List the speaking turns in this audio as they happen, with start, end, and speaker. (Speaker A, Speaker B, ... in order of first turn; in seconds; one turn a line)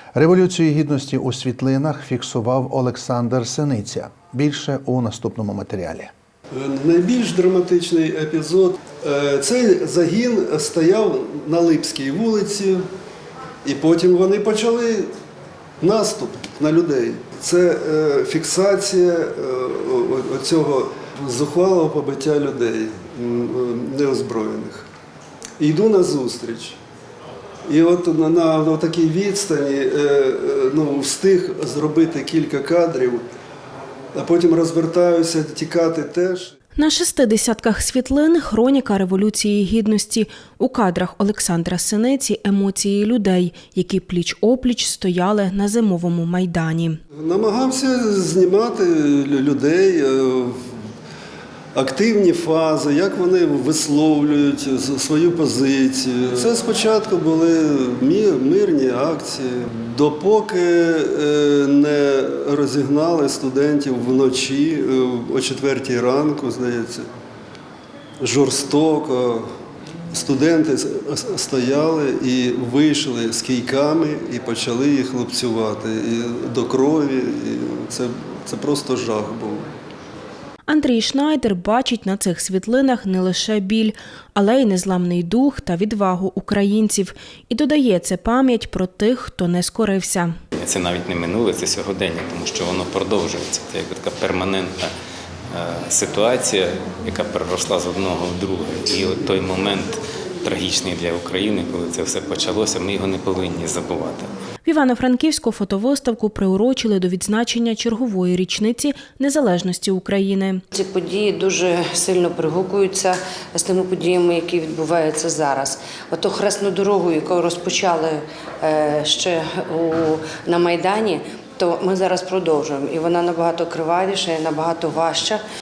Speaker A: 0.1-6.1
Speaker B: 6.5-12.8
Speaker B: 13.7-15.1
Speaker B: 15.8-24.9
Speaker B: 25.6-26.8
Speaker B: 27.7-33.2
Speaker B: 34.1-36.5
Speaker C: 36.7-47.0
Speaker B: 47.2-50.7
Speaker B: 51.7-67.1
Speaker B: 68.2-69.5
Speaker B: 70.1-79.6
Speaker C: 80.7-90.3
Speaker D: 90.5-94.9
Speaker D: 95.5-104.3
Speaker C: 104.6-110.6
Speaker E: 110.7-125.4